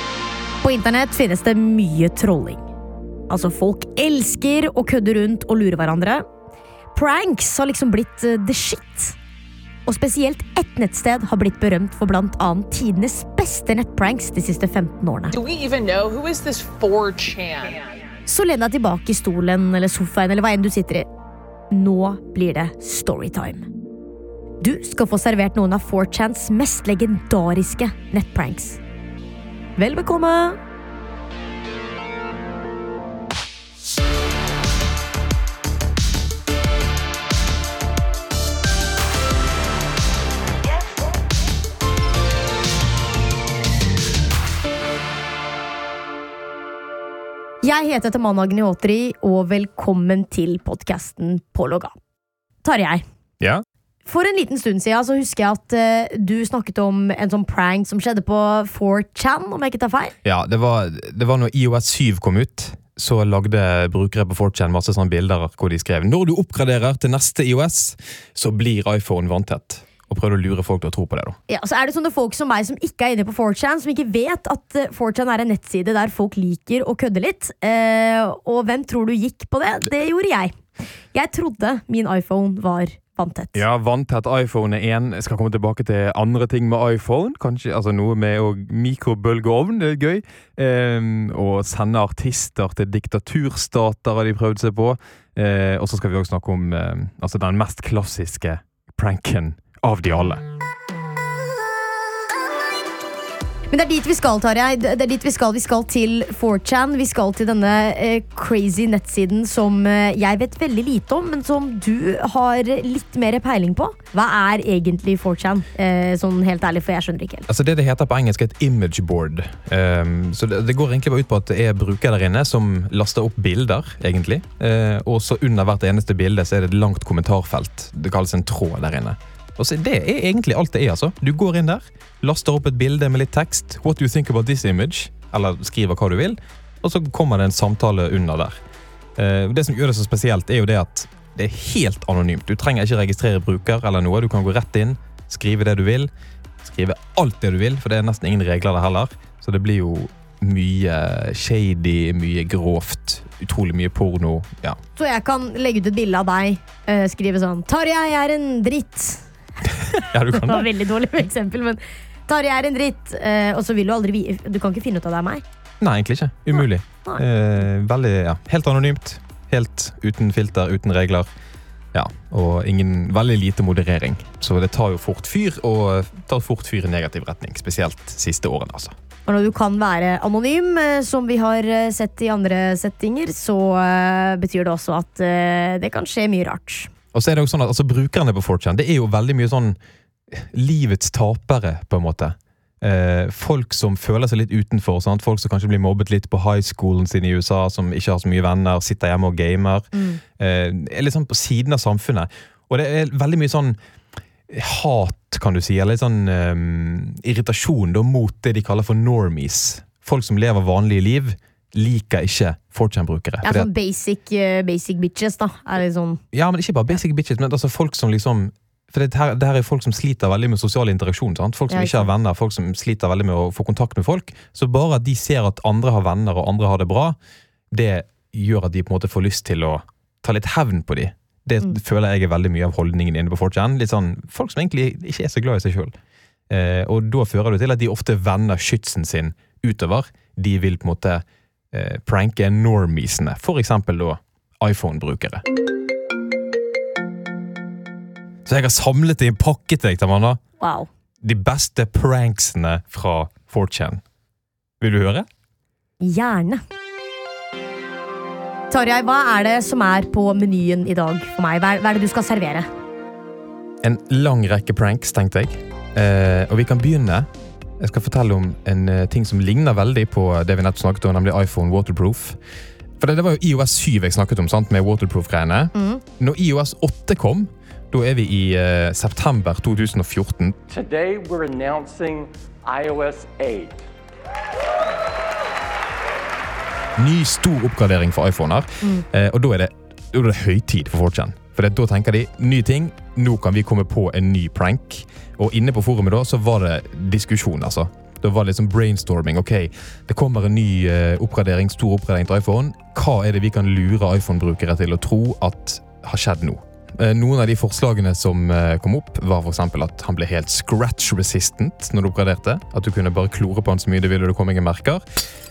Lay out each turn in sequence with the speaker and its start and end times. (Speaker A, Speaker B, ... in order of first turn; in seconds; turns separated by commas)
Speaker A: 0.6-2.7, Speaker A: 3.3-6.2, Speaker A: 7.0-9.2, Speaker A: 9.9-15.4, Speaker B: 15.3-17.8, Speaker A: 18.3-21.1, Speaker A: 21.7-23.7, Speaker A: 24.6-28.8, Speaker A: 29.8-30.6, Speaker A: 47.6-51.9, Speaker A: 52.6-53.0, Speaker A: 54.0-60.1, Speaker C: 60.2-71.4, Speaker A: 71.5-80.5, Speaker A: 81.1-83.7, Speaker C: 83.5-100.4, Speaker A: 103.7-117.5, Speaker C: 117.5-138.6, Speaker C: 139.2-146.1, Speaker C: 146.6-154.8, Speaker A: 155.0-159.2, Speaker C: 160.0-160.7, Speaker A: 160.3-165.4, Speaker C: 165.8-171.3, Speaker C: 171.9-178.9, Speaker A: 179.3-186.9, Speaker C: 187.1-189.8, Speaker C: 190.3-203.8, Speaker A: 199.9-200.2, Speaker C: 204.5-213.7, Speaker A: 213.4-216.2, Speaker C: 216.3-227.2, Speaker A: 221.7-222.1, Speaker C: 227.7-235.9, Speaker C: 236.5-245.4, Speaker C: 248.5-250.4, Speaker A: 250.6-250.9, Speaker C: 251.2-254.0, Speaker C: 254.8-255.3, Speaker A: 256.0-256.6, Speaker A: 258.7-262.7, Speaker C: 263.8-267.3, Speaker C: 267.8-272.4, Speaker C: 273.0-280.6, Speaker A: 275.8-276.0, Speaker D: 280.8-282.2, Speaker D: 282.7-283.7, Speaker C: 287.0-315.0